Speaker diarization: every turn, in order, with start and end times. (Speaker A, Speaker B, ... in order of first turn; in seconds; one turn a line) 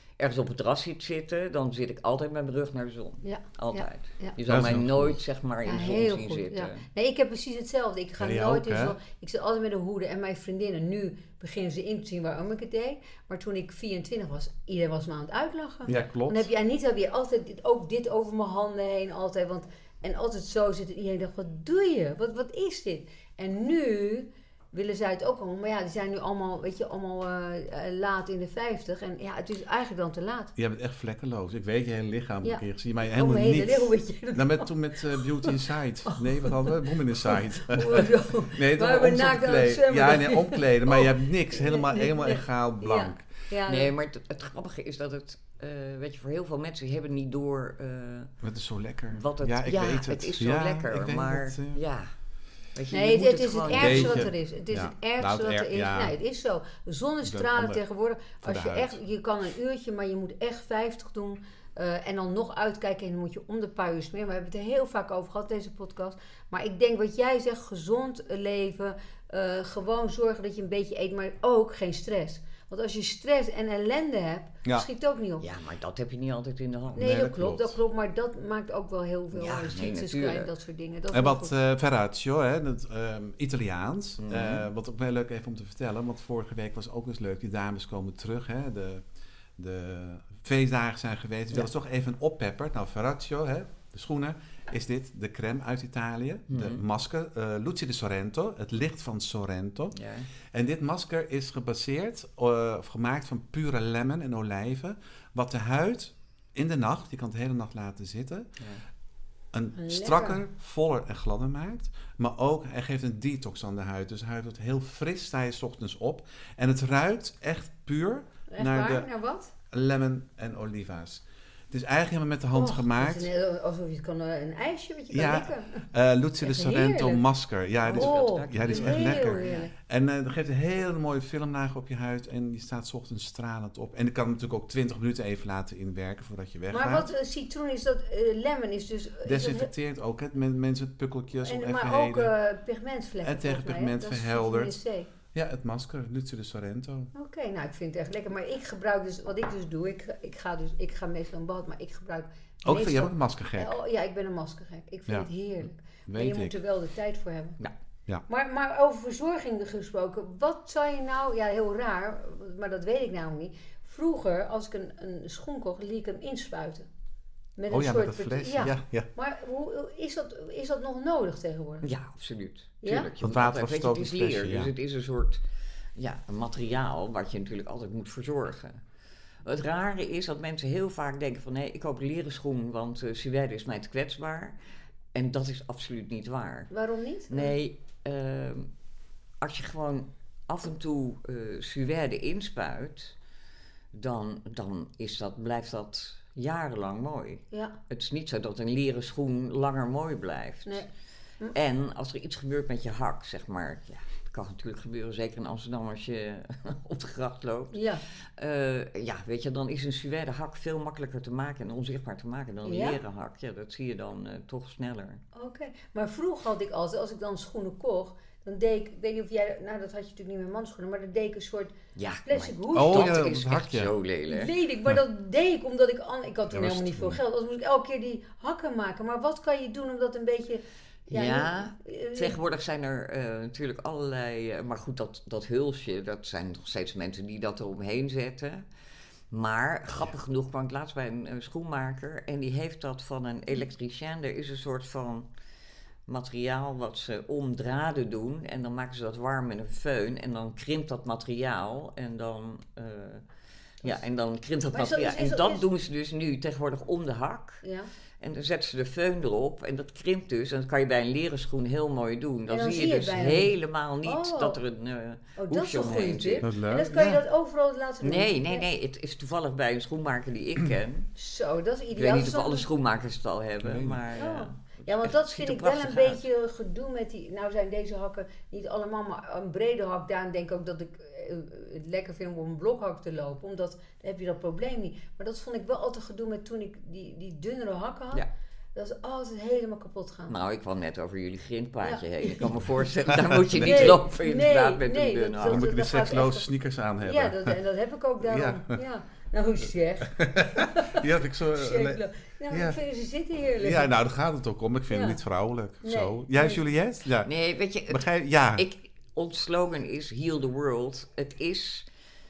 Speaker A: 0.2-6.8
Speaker B: 3.2-4.3
Speaker C: 4.5-5.2
Speaker B: 5.6-30.5
Speaker C: 8.2-9.0
Speaker C: 15.8-16.5
Speaker C: 30.6-43.3
Speaker B: 32.4-43.9
Speaker A: 43.7-48.3
Speaker C: 48.4-51.8
Speaker A: 49.1-52.1
Speaker A: 52.7-54.3
Speaker B: 52.9-75.5
Speaker C: 53.7-56.1
Speaker C: 57.2-57.8
Speaker C: 58.4-59.0
Speaker A: 75.4-77.0
Speaker C: 76.9-77.8
Speaker B: 77.0-81.5
Speaker A: 79.3-80.5
Speaker C: 81.1-89.0
Speaker A: 84.2-84.7
Speaker C: 89.6-100.0
Speaker A: 96.5-96.8
Speaker A: 99.9-100.3
Speaker C: 100.5-108.5
Speaker C: 109.5-119.1
Speaker B: 109.7-110.4
Speaker B: 118.5-119.5
Speaker C: 119.7-123.3
Speaker B: 122.5-125.9
Speaker C: 125.1-137.1
Speaker B: 126.4-127.2
Speaker A: 127.8-129.7
Speaker B: 127.9-129.7
Speaker B: 136.7-139.7
Speaker C: 139.2-142.3
Speaker B: 141.4-145.1
Speaker C: 143.2-144.8
Speaker C: 145.3-147.1
Speaker B: 147.1-157.6
Speaker C: 152.6-153.7
Speaker C: 156.1-156.6
Speaker B: 158.3-166.9
Speaker B: 167.6-171.9
Speaker C: 167.7-169.1
Speaker A: 171.8-175.4
Speaker B: 172.8-173.1
Speaker C: 173.2-174.7
Speaker A: 175.9-178.8
Speaker A: 179.4-184.6
Speaker A: 185.1-186.7
Speaker B: 186.7-187.5
Speaker A: 187.3-188.7
Speaker A: 189.4-193.1
Speaker A: 193.9-200.8
Speaker B: 197.5-197.8
Speaker A: 201.5-207.8
Speaker B: 207.7-208.0
Speaker A: 208.4-215.2
Speaker B: 212.6-213.0
Speaker B: 215.3-223.2
Speaker A: 221.9-224.5
Speaker C: 222.7-223.9
Speaker B: 224.3-232.4
Speaker C: 226.5-227.2
Speaker A: 231.1-238.7
Speaker A: 239.3-245.3
Speaker A: 246.1-253.2
Speaker A: 253.8-257.6
Speaker B: 254.7-255.6
Speaker B: 257.6-257.9
Speaker A: 258.2-266.5
Speaker B: 262.5-264.6
Speaker B: 265.4-268.6
Speaker C: 266.4-267.2
Speaker A: 268.0-271.1
Speaker B: 271.1-272.7
Speaker A: 271.9-276.2
Speaker C: 273.6-274.0
Speaker B: 274.1-290.3
Speaker A: 290.3-295.7
Speaker B: 291.8-292.5
Speaker C: 293.1-293.9
Speaker B: 293.6-296.5
Speaker C: 295.4-297.6
Speaker B: 297.0-303.9
Speaker C: 298.2-298.8
Speaker C: 300.1-302.8
Speaker C: 303.6-307.3
Speaker B: 304.9-305.2
Speaker B: 305.8-306.6
Speaker A: 307.2-311.9
Speaker C: 307.9-308.6